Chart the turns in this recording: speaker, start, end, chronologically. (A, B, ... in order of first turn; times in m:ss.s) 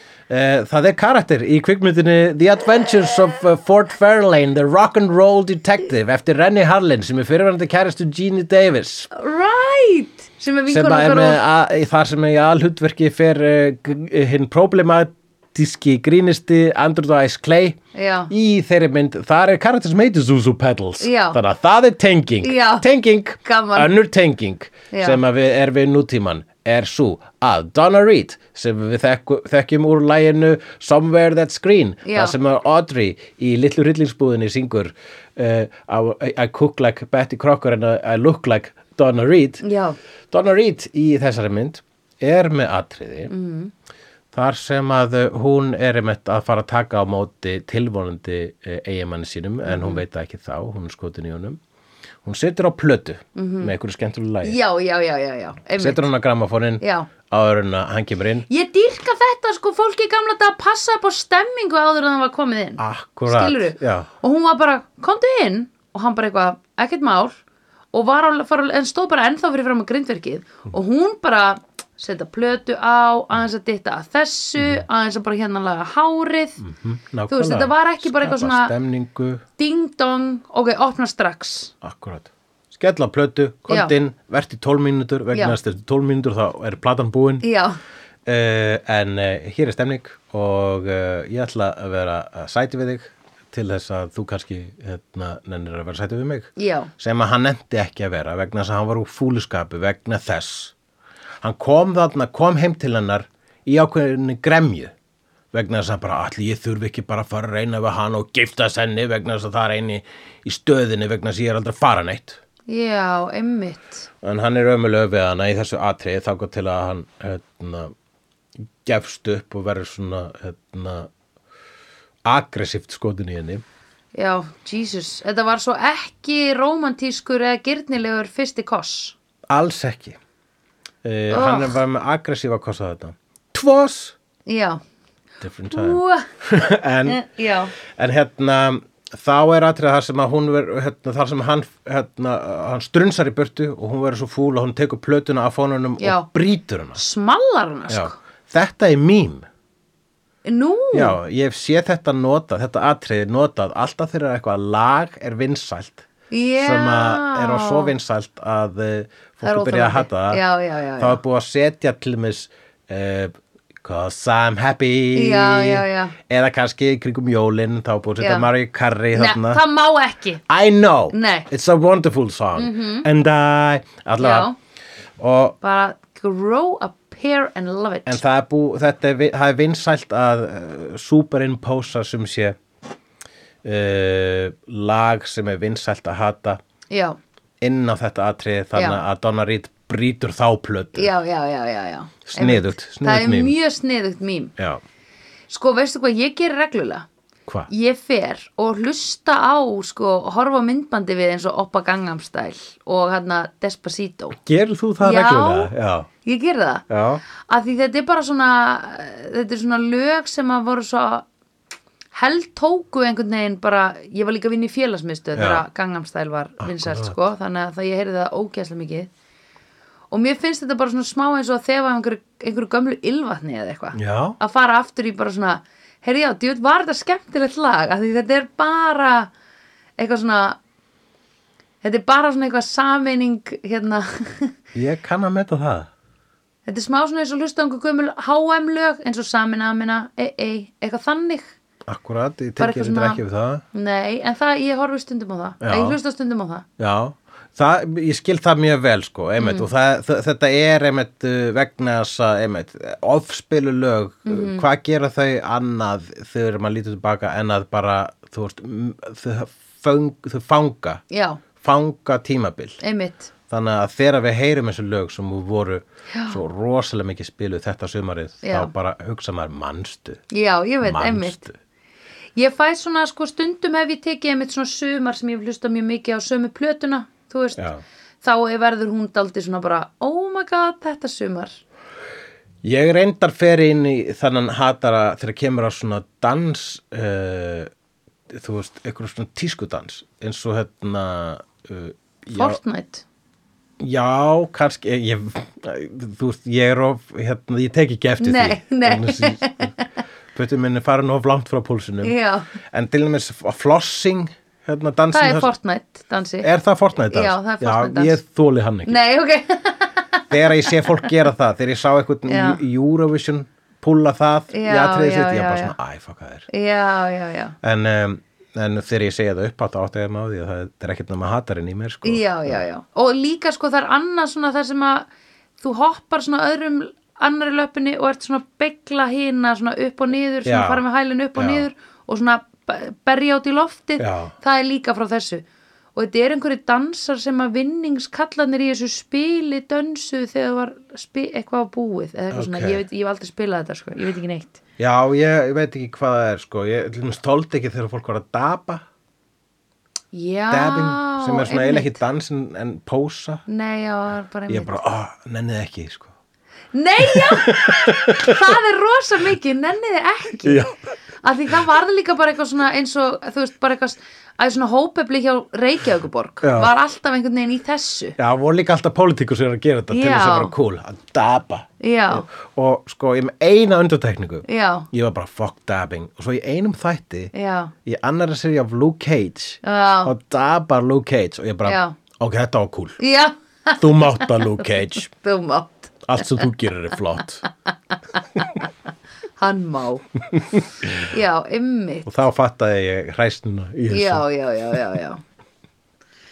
0:00.3-0:09.1 A
0:09.1-0:11.4 B
0:10.7-0:17.8 A
0:17.9-0:18.3 B
0:18.3-0:39.6 A
0:21.0-0:21.4 B
0:22.4-0:22.8 B
0:23.4-0:23.9 B
0:24.9-0:25.2 B
0:32.0-0:32.3 B
0:39.6-0:40.0 B
0:40.3-0:43.3 A
0:43.3-0:43.7 B
0:44.3-0:51.6 A
0:49.6-0:50.0 B
0:52.2-0:54.6 A
0:53.3-0:53.7 B
0:54.4-0:56.1 B
0:55.8-0:58.4 A
0:56.8-0:57.1 B
0:58.5-1:07.4 B
1:02.8-1:04.1 A
1:07.9-1:16.6 B
1:16.6-1:19.4 A
1:17.3-1:18.7 B
1:19.6-1:21.7 B
1:21.8-1:27.5 A
1:27.4-1:27.8 B
1:28.2-1:40.7 A
1:36.6-1:36.9 B
1:41.4-1:44.9 A
1:45.5-1:52.4 A
1:52.7-1:54.1 B
1:54.2-1:57.9 A
1:58.8-2:01.1 A
2:02.2-2:03.6 A
2:04.1-2:09.2 B
2:09.5-2:10.2 A
2:11.0-2:14.2 A
2:11.3-2:11.8 B
2:14.4-2:14.8 B
2:15.4-2:17.2 A
2:15.7-2:16.3 B
2:17.1-2:17.7 B
2:17.9-2:27.0 A
2:26.0-2:26.3 B
2:26.9-2:28.2 B
2:27.9-2:29.5 A
2:30.4-2:31.2 B
2:30.9-2:36.1 A
2:36.3-2:37.9 B
2:36.6-2:40.4 A
2:39.4-2:41.2 B
2:41.0-2:49.6 A
2:45.1-2:46.2 B
2:48.2-2:48.5 B
2:49.1-2:50.4 B
2:50.5-2:54.5 A
2:51.1-2:51.5 B
2:52.6-2:53.1 B
2:54.2-2:54.5 B
2:55.2-2:55.6 A
2:55.6-2:58.2 B
2:58.0-3:02.6 A
3:03.6-3:06.6 A
3:06.9-3:07.2 B
3:07.6-3:11.1 A
3:08.7-3:09.0 B
3:10.9-3:14.5 B
3:12.3-3:13.6 A
3:14.6-3:14.8 A
3:15.5-3:17.1 B
3:17.7-3:24.4 B
3:24.4-3:26.1 A
3:25.0-3:25.7 B
3:26.2-3:26.8 B
3:26.9-3:27.2 A
3:27.5-3:31.3 B
3:32.1-3:39.1 B
3:35.4-3:35.6 A
3:36.6-3:37.2 A
3:40.1-3:49.3 B
3:43.9-3:44.4 A
3:50.0-3:50.6 B
3:51.8-3:54.5 B
3:54.7-3:55.9 A
3:56.6-4:01.5 B
4:01.9-4:03.6 A
4:02.6-4:03.2 B
4:03.7-4:06.6 B
4:05.6-4:06.0 A
4:06.8-4:21.0 A
4:09.4-4:09.7 B
4:14.2-4:14.6 B
4:21.1-4:21.4 B
4:21.6-4:22.8 A
4:22.8-4:23.3 B
4:23.5-4:30.2 A
4:26.1-4:26.4 B
4:28.4-4:28.7 B
4:30.3-4:31.4 B
4:30.8-4:31.5 A
4:32.4-4:37.6 B
4:37.6-4:37.8 A
4:38.2-4:41.6 B
4:42.6-4:47.7 A
4:48.3-4:52.6 A
4:52.3-4:53.0 B
4:53.8-4:59.7 A
4:58.2-4:59.8 B
5:00.3-5:02.1 A
5:02.0-5:02.5 B
5:02.7-5:05.5 A
5:05.1-5:06.5 B
5:06.4-5:09.0 A
5:07.1-5:08.2 B
5:08.8-5:11.1 B
5:10.3-5:16.5 A
5:12.3-5:12.6 B
5:14.5-5:15.7 B
5:16.5-5:17.6 B
5:17.6-5:22.6 A
5:22.0-5:25.1 B
5:25.6-5:44.6 B
5:30.4-5:30.8 A
5:31.4-5:31.7 A
5:34.0-5:34.3 A
5:42.3-5:42.8 A
5:44.8-5:48.8 A
5:50.1-5:51.9 B
5:50.5-5:53.4 A
5:53.5-5:54.8 B
5:54.5-5:56.1 A
5:56.7-6:00.7 B
5:57.0-5:58.5 A
6:00.4-6:00.7 A
6:01.2-6:08.2 B
6:06.4-6:06.7 A
6:08.2-6:17.3 A
6:09.9-6:10.5 B
6:11.8-6:12.3 B
6:14.4-6:14.9 B
6:17.3-6:17.7 B
6:17.8-6:23.0 A
6:19.6-6:20.1 B
6:21.6-6:22.0 B
6:23.0-6:24.6 B
6:23.8-6:25.1 A
6:25.1-6:26.0 B
6:26.0-6:27.4 A
6:29.4-6:30.0 B
6:30.5-6:31.0 A
6:30.9-6:32.2 B
6:32.0-6:34.2 A
6:33.9-6:35.2 B